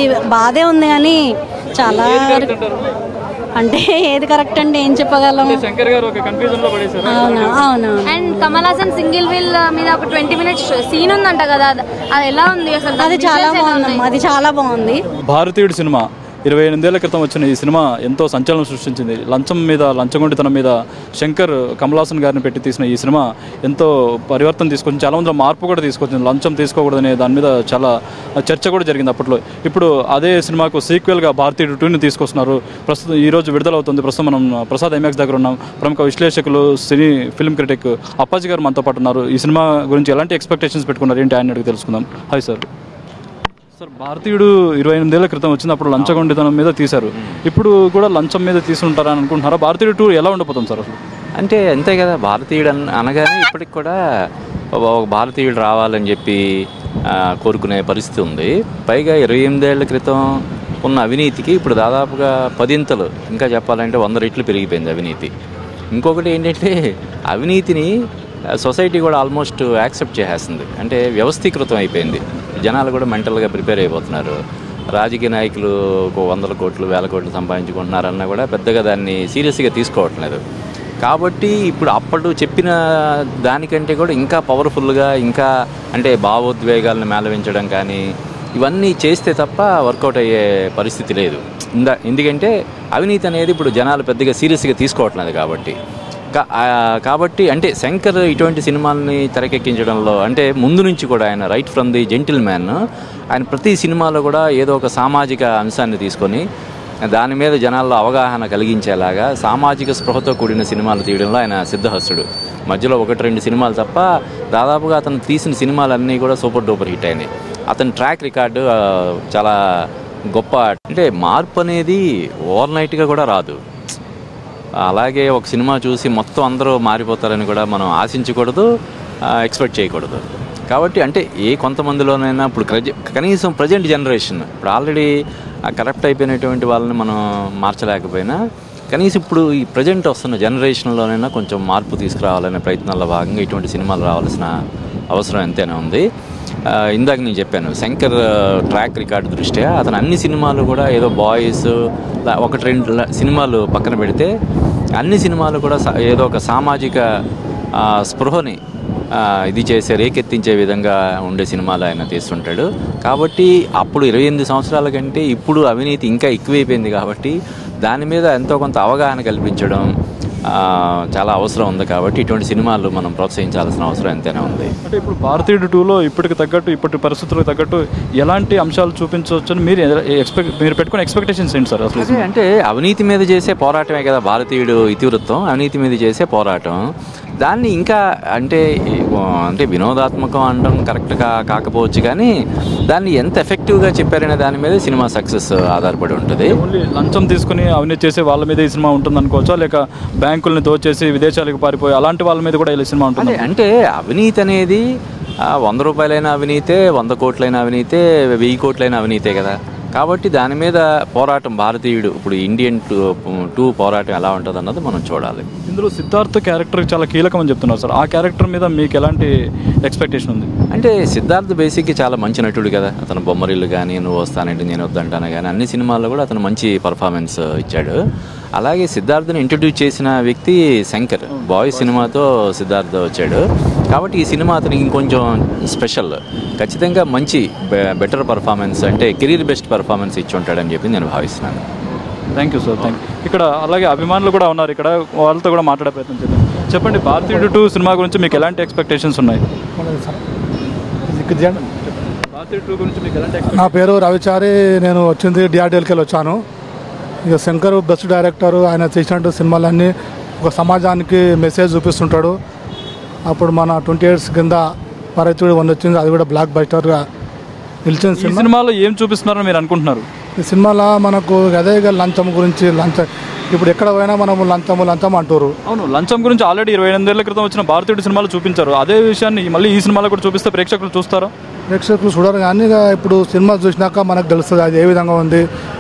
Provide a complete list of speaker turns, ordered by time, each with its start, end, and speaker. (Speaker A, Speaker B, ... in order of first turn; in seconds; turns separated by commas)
Speaker A: 0.3-1.2, Speaker A: 1.8-2.5, Speaker B: 1.9-2.9, Speaker A: 3.6-5.6, Speaker B: 5.4-7.6, Speaker A: 7.1-8.6, Speaker C: 8.1-14.1, Speaker A: 13.0-15.0, Speaker B: 15.3-42.7, Speaker B: 43.8-51.0, Speaker D: 46.0-46.4, Speaker D: 51.4-54.0, Speaker D: 54.7-56.4, Speaker D: 57.1-60.2, Speaker D: 60.8-65.3, Speaker D: 65.9-66.8, Speaker D: 67.3-67.9, Speaker D: 68.6-74.4, Speaker D: 74.9-80.4, Speaker D: 81.0-88.0, Speaker D: 88.6-95.8, Speaker D: 96.3-102.8, Speaker D: 103.3-106.4, Speaker D: 107.1-119.5, Speaker D: 120.3-122.0, Speaker D: 122.5-123.6, Speaker D: 124.8-128.7, Speaker D: 129.3-135.1, Speaker D: 135.7-138.4, Speaker D: 138.9-144.5, Speaker D: 145.1-146.0, Speaker D: 146.7-151.7, Speaker D: 152.3-154.3, Speaker D: 155.0-157.1, Speaker D: 157.8-158.6, Speaker D: 159.1-169.9, Speaker D: 170.5-174.7, Speaker B: 174.9-182.3, Speaker D: 182.0-186.9, Speaker D: 187.4-192.3, Speaker D: 192.9-196.6, Speaker B: 196.6-203.5, Speaker D: 203.2-204.8, Speaker D: 205.5-215.5, Speaker B: 215.7-219.3, Speaker B: 219.9-220.5, Speaker D: 220.7-228.0, Speaker D: 228.6-241.6, Speaker B: 231.3-232.1, Speaker B: 242.4-249.4, Speaker E: 249.8-250.2, Speaker E: 251.1-251.6, Speaker B: 251.6-253.8, Speaker E: 253.6-256.4, Speaker E: 257.3-262.4, Speaker E: 263.3-264.6, Speaker E: 265.2-267.0, Speaker E: 267.9-268.5, Speaker B: 268.1-270.1, Speaker E: 270.4-275.5, Speaker B: 275.7-281.3, Speaker E: 281.7-285.4